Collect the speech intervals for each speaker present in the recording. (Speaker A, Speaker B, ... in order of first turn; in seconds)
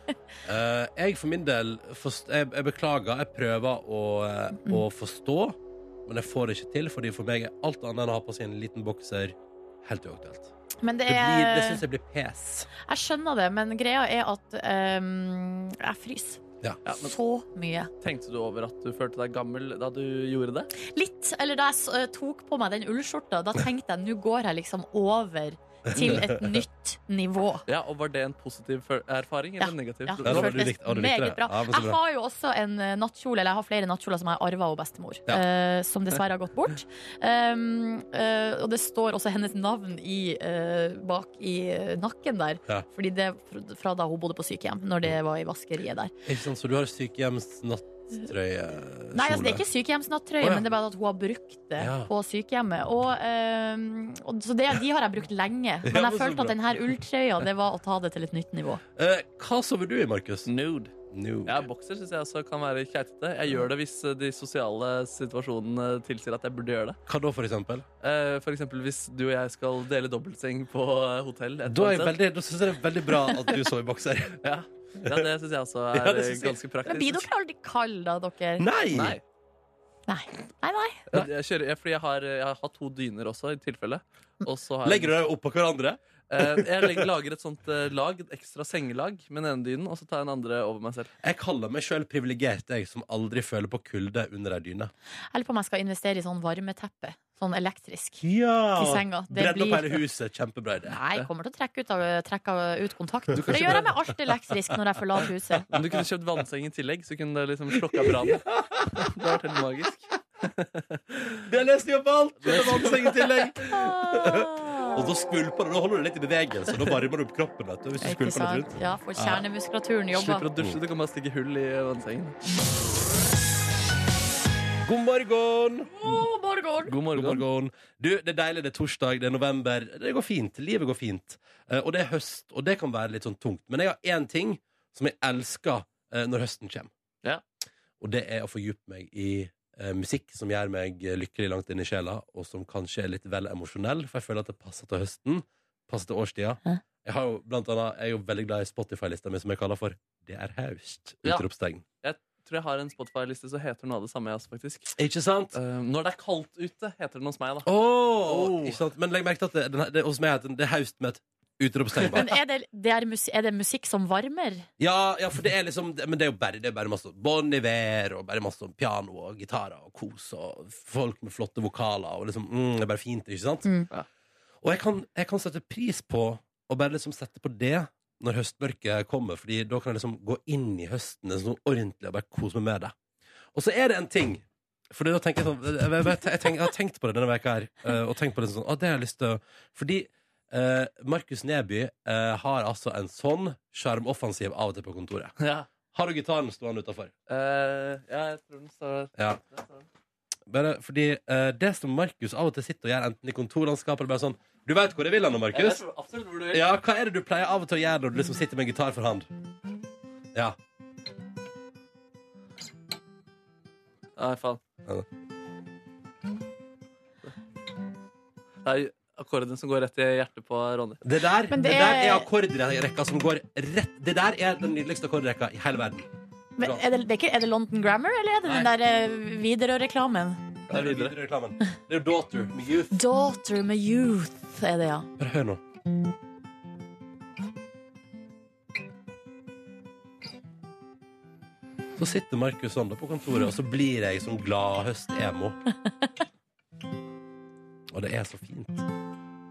Speaker A: 0.4-10.5, 11.1-12.7, 25.9-26.6, 30.2-32.0, 46.2-49.6, 50.4-50.7, 51.8-52.1, 55.8-56.9, 59.0-60.5, 61.1-61.6, 67.1-67.8, 71.7-74.4, 75.9-76.6, 78.6-79.2, 84.8-87.0, 91.2-94.9, 98.2-101.0, 103.5-103.8, 108.3-108.9, 111.4-119.4, 124.8-125.9, 127.1-136.9, 138.0-151.8, 154.9-155.5, 157.6-162.3, 164.8-173.7, 174.6-182.9, 183.5-195.4, 195.9-197.1, 200.5-205.8, 206.5-209.3, 221.0-226.8, 230.7-233.0, 235.2-235.6, 242.0-245.6, 247.9-248.8
Speaker B: 10.8-11.8, 12.8-17.9, 20.8-27.6, 29.6-46.1, 49.1-58.8, 76.8-78.7, 80.1-81.0, 95.3-98.2, 98.8-99.9, 100.9-105.7, 114.3-114.9, 118.0-120.5, 126.0-126.9, 162.1-164.7, 221.5-222.3, 226.6-230.4, 232.9-235.1
Speaker C: 16.9-17.1, 18.0-20.7, 25.9-26.2, 27.7-30.6, 60.5-60.9, 61.5-67.0, 68.0-72.1, 74.4-77.3, 78.9-79.2, 81.1-85.2, 86.3-91.1, 103.4-103.9, 105.7-111.4, 112.4-113.8, 120.1-122.3, 126.9-127.4, 152.0-154.9, 155.5-157.7, 158.2-158.8, 195.4-195.7, 197.3-199.8, 205.5-206.6, 214.2-214.6, 218.6-221.0, 230.7-231.1